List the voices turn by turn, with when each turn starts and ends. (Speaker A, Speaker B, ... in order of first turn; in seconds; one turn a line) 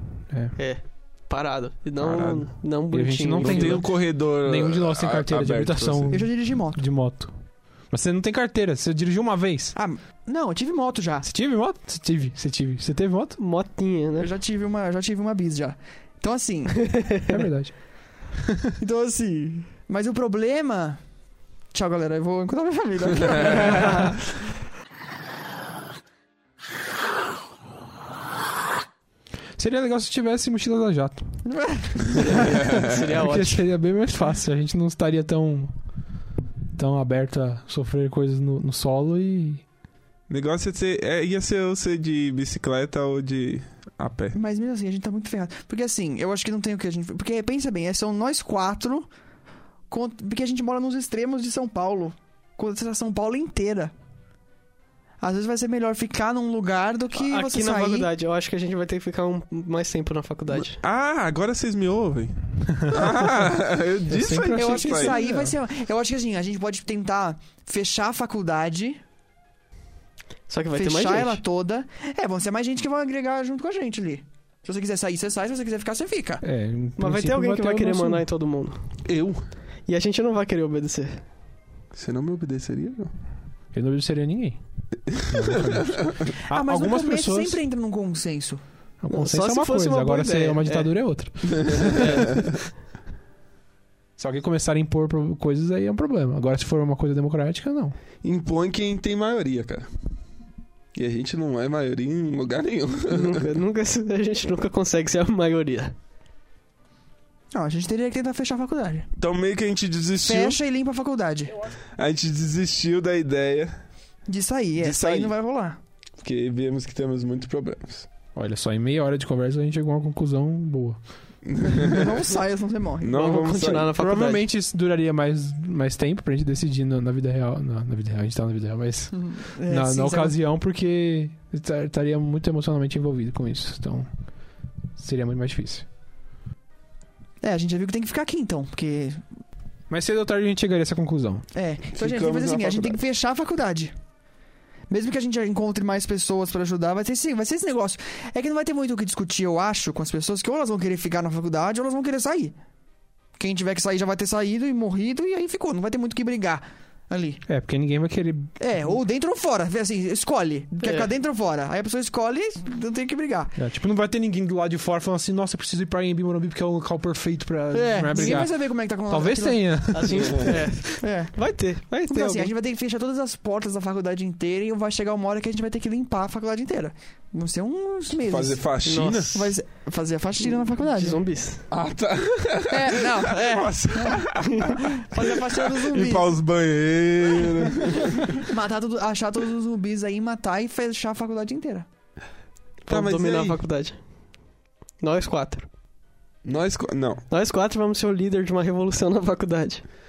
Speaker A: 0.3-0.6
Speaker B: 0.6-3.8
Speaker C: 2.0-2.5
Speaker A: 2.9-7.3
Speaker C: 3.4-6.2
Speaker D: 6.1-6.8
Speaker A: 7.9-9.8
Speaker D: 9.7-11.3
Speaker A: 11.2-13.4
Speaker B: 13.4-14.3
Speaker D: 14.2-17.0
Speaker B: 16.8-17.1
Speaker A: 17.3-18.7
Speaker D: 18.8-21.0
Speaker D: 21.7-24.2
Speaker B: 23.6-24.1
Speaker A: 29.6-31.2
Speaker D: 31.4-32.4
Speaker B: 32.1-33.6
Speaker A: 32.3-35.7
Speaker C: 32.4-33.1
Speaker A: 36.7-39.6
Speaker C: 40.3-44.4
Speaker D: 44.3-49.1
Speaker D: 49.9-53.9
Speaker D: 55.2-58.1
Speaker B: 57.1-60.8
Speaker C: 60.5-65.2
Speaker A: 62.8-63.4
Speaker A: 64.1-65.5
Speaker D: 64.5-69.0
Speaker B: 70.5-71.4
Speaker D: 70.7-76.4
Speaker A: 76.4-78.2
Speaker B: 77.0-78.8
Speaker C: 79.0-79.4
Speaker B: 79.9-81.2
Speaker C: 81.9-83.1
Speaker A: 83.7-87.6
Speaker C: 85.3-85.7
Speaker D: 86.5-88.6
Speaker A: 89.0-92.3
Speaker B: 89.1-92.4
Speaker C: 91.7-92.5
Speaker A: 94.2-97.9
Speaker C: 98.2-99.9
Speaker C: 100.9-103.5
Speaker B: 103.1-105.9
Speaker D: 107.5-109.1
Speaker C: 109.2-110.6
Speaker D: 110.2-111.5
Speaker C: 112.0-113.7
Speaker D: 114.3-115.8
Speaker C: 114.8-115.3
Speaker C: 116.2-118.1
Speaker A: 118.3-121.0
Speaker C: 121.4-122.2
Speaker D: 121.6-123.2
Speaker C: 123.0-124.0
Speaker B: 123.1-124.5
Speaker A: 124.0-134.1
Speaker D: 129.1-130.3
Speaker A: 134.9-135.8
Speaker D: 137.4-139.2
Speaker A: 139.9-141.4
Speaker D: 141.5-143.9
Speaker C: 141.9-143.0
Speaker D: 144.9-152.6
Speaker D: 153.4-157.4
Speaker A: 157.5-158.5
Speaker D: 158.6-163.6
Speaker B: 160.8-161.1
Speaker A: 163.6-170.6
Speaker D: 167.7-170.4
Speaker B: 168.1-168.4
Speaker B: 169.9-172.5
Speaker D: 171.0-171.3
Speaker D: 172.1-178.7
Speaker C: 178.2-179.5
Speaker B: 178.8-179.4
Speaker D: 179.3-181.2
Speaker B: 180.4-181.7
Speaker C: 181.7-188.4
Speaker D: 182.7-186.3
Speaker D: 188.4-191.8
Speaker B: 192.8-194.0
Speaker C: 192.9-193.6
Speaker B: 195.0-195.7
Speaker C: 196.4-197.2
Speaker B: 197.3-199.8